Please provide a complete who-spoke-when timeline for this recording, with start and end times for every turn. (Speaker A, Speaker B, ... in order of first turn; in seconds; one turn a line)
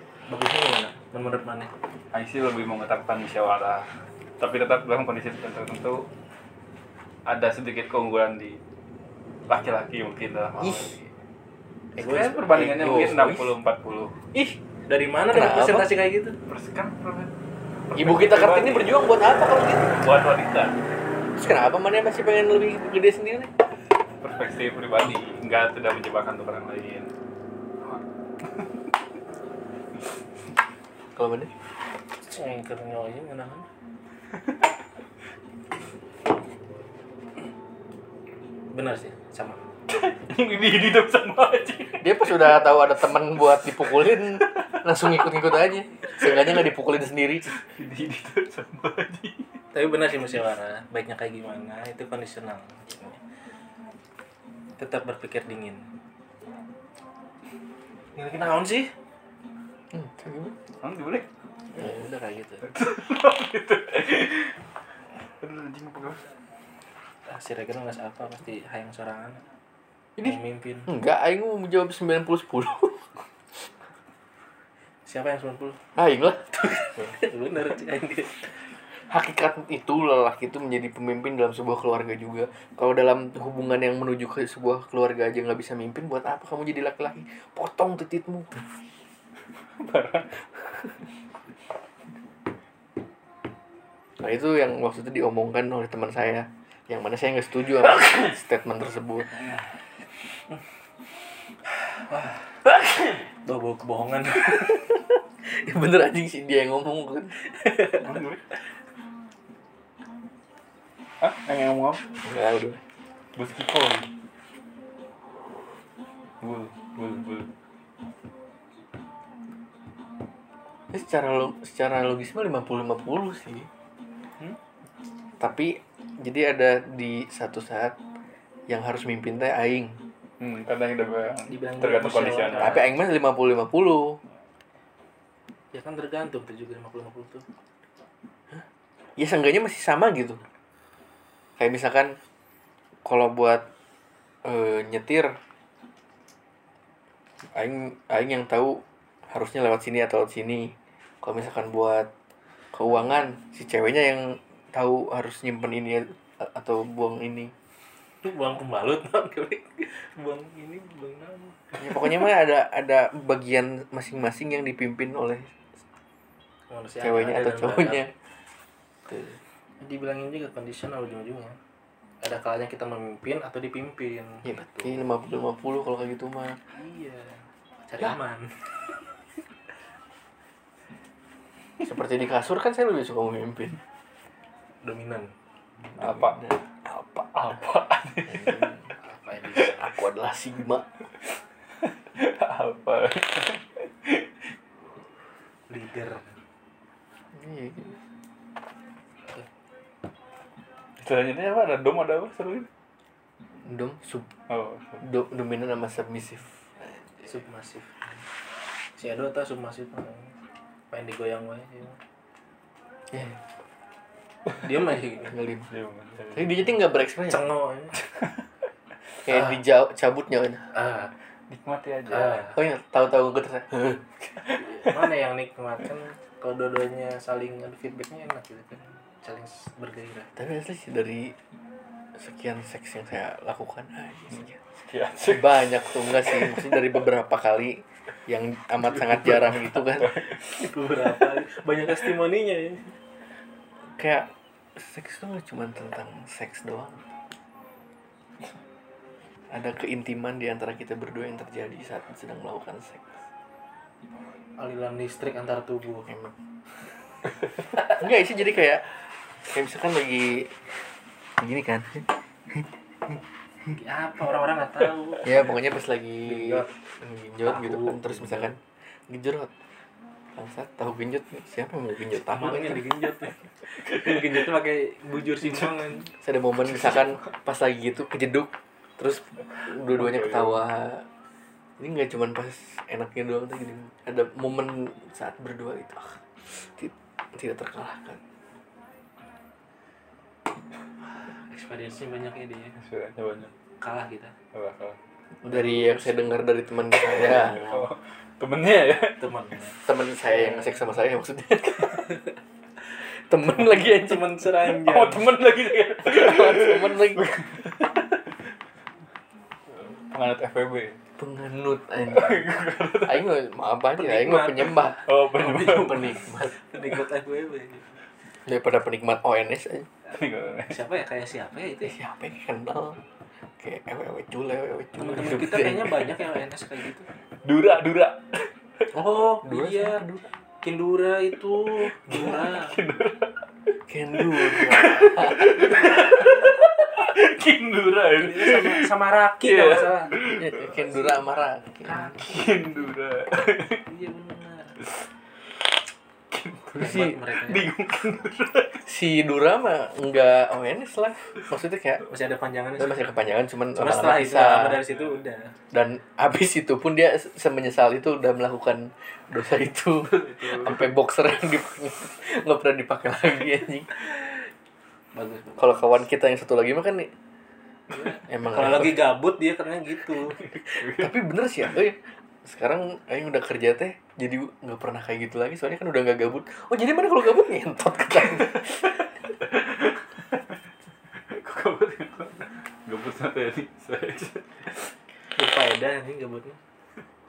Speaker A: 0.3-1.7
Speaker B: 2.1-6.1
Speaker B: 7.2-8.6
Speaker B: 9.5-11.1
Speaker C: 10.6-10.9
Speaker A: 11.9-12.5
Speaker B: 11.9-14.2
Speaker C: 12.5-13.5
Speaker C: 14.3-14.6
Speaker A: 14.8-16.4
Speaker C: 15.3-16.0
Speaker B: 16.5-17.3
Speaker B: 17.9-19.0
Speaker C: 17.9-20.0
Speaker B: 19.8-20.8
Speaker C: 21.4-23.5
Speaker B: 24.2-27.1
Speaker C: 31.1-31.5
Speaker A: 32.2-33.7
Speaker A: 38.7-39.6
Speaker B: 39.9-42.6
Speaker C: 42.0-47.5
Speaker B: 43.8-44.1
Speaker B: 47.5-49.6
Speaker A: 49.7-53.2
Speaker A: 54.8-55.9
Speaker A: 58.1-58.9
Speaker C: 59.9-60.6
Speaker B: 60.8-61.3
Speaker A: 61.7-62.7
Speaker B: 62.6-64.5
Speaker B: 65.4-66.2
Speaker A: 67.2-69.4
Speaker C: 70.2-73.1
Speaker A: 70.2-70.9
Speaker A: 75.0-75.8
Speaker C: 75.9-76.9
Speaker A: 76.7-78.6
Speaker C: 79.0-88.7
Speaker B: 89.8-91.0
Speaker C: 94.2-99.4
Speaker B: 97.8-98.3
Speaker A: 102.1-102.4
Speaker A: 103.2-105.0
Speaker C: 105.5-107.4
Speaker A: 107.5-108.2
Speaker B: 107.9-108.4
Speaker B: 111.2-112.2
Speaker C: 112.2-112.8
Speaker B: 113.3-114.1
Speaker B: 116.4-117.5
Speaker C: 120.9-123.7
Speaker C: 125.4-128.0
Speaker C: 128.7-130.0
Speaker B: 130.4-132.9
Speaker A: 131.5-132.9
Speaker C: 132.6-134.2
Speaker A: 135.7-137.5
Speaker C: 139.2-140.4
Speaker C: 141.6-142.2
Speaker C: 143.0-143.6
Speaker C: 144.4-145.4
Speaker C: 147.5-152.1
Speaker C: 152.7-157.5
Speaker A: 158.2-162.2
Speaker C: 161.8-165.7
Speaker A: 166.7-168.0
Speaker C: 167.0-168.1
Speaker C: 169.1-169.4
Speaker A: 169.8-171.6
Speaker A: 172.2-175.0
Speaker C: 174.4-176.6
Speaker A: 176.7-178.7
Speaker C: 181.8-183.8
Speaker A: 184.8-185.3
Speaker B: 185.9-186.5
Speaker C: 186.0-187.2
Speaker B: 187.2-188.8
Speaker C: 188.3-188.8
Speaker A: 189.0-189.9
Speaker C: 189.7-190.9
Speaker B: 191.8-194.3
Speaker A: 195.7-196.3
Speaker C: 197.3-198.0
Speaker B: 201.0-202.7
Speaker C: 203.6-204.3
Speaker B: 204.5-205.0
Speaker C: 205.0-207.2
Speaker A: 207.2-208.2
Speaker A: 208.9-210.3
Speaker A: 210.9-212.0
Speaker C: 213.1-213.4
Speaker A: 214.5-215.4
Speaker C: 215.2-215.7
Speaker B: 215.7-216.7
Speaker C: 216.3-217.5
Speaker A: 217.3-218.0
Speaker C: 219.2-220.7
Speaker A: 220.7-221.1
Speaker B: 221.5-222.5
Speaker A: 222.1-222.5
Speaker C: 222.3-224.2
Speaker A: 224.5-230.3
Speaker C: 230.3-231.4
Speaker C: 232.1-234.6
Speaker B: 234.8-236.8
Speaker C: 235.2-240.2
Speaker B: 239.0-240.4
Speaker A: 240.3-243.0
Speaker C: 244.0-247.1
Speaker C: 249.5-253.2
Speaker A: 254.6-256.1
Speaker C: 256.1-256.3
Speaker C: 257.7-260.6
Speaker C: 261.4-262.6
Speaker A: 263.7-265.3
Speaker C: 265.2-269.5
Speaker A: 266.2-266.7
Speaker A: 267.4-268.5
Speaker C: 270.3-272.9
Speaker A: 272.1-276.1
Speaker C: 276.2-281.1
Speaker B: 279.9-280.6
Speaker C: 281.8-288.2
Speaker A: 291.1-292.8
Speaker B: 292.8-293.5
Speaker A: 293.8-294.4
Speaker B: 294.5-295.0
Speaker C: 295.4-297.8
Speaker A: 295.5-296.4
Speaker B: 297.1-299.3
Speaker A: 299.2-299.8
Speaker C: 299.8-302.2
Speaker C: 303.0-304.4
Speaker A: 303.4-305.3
Speaker B: 304.5-308.2
Speaker C: 306.0-307.3
Speaker B: 309.7-311.0
Speaker C: 311.2-316.6
Speaker B: 312.1-313.3
Speaker A: 314.0-318.0
Speaker B: 315.0-316.1
Speaker C: 318.4-319.9
Speaker B: 320.1-320.8
Speaker A: 320.7-321.9
Speaker C: 321.8-326.1
Speaker A: 325.0-327.1
Speaker B: 327.4-328.5
Speaker A: 328.9-330.0
Speaker C: 328.9-330.2
Speaker A: 330.6-332.8
Speaker B: 332.1-333.4
Speaker C: 333.9-336.4
Speaker B: 334.1-340.8
Speaker A: 338.1-340.3
Speaker C: 340.3-342.2
Speaker A: 341.8-342.9
Speaker B: 342.1-343.8
Speaker A: 343.8-344.8
Speaker B: 346.3-348.9
Speaker A: 346.8-347.7
Speaker C: 346.8-347.2
Speaker C: 348.9-352.0
Speaker A: 352.0-353.0
Speaker C: 352.8-354.8
Speaker A: 353.7-355.5
Speaker B: 354.9-355.2
Speaker C: 355.7-364.4
Speaker B: 360.2-360.9
Speaker A: 365.1-365.6
Speaker C: 365.6-367.1
Speaker A: 367.9-370.4
Speaker C: 368.3-369.1
Speaker B: 370.4-371.2
Speaker C: 370.7-379.0
Speaker B: 379.4-380.4
Speaker B: 381.3-384.9
Speaker A: 385.3-386.6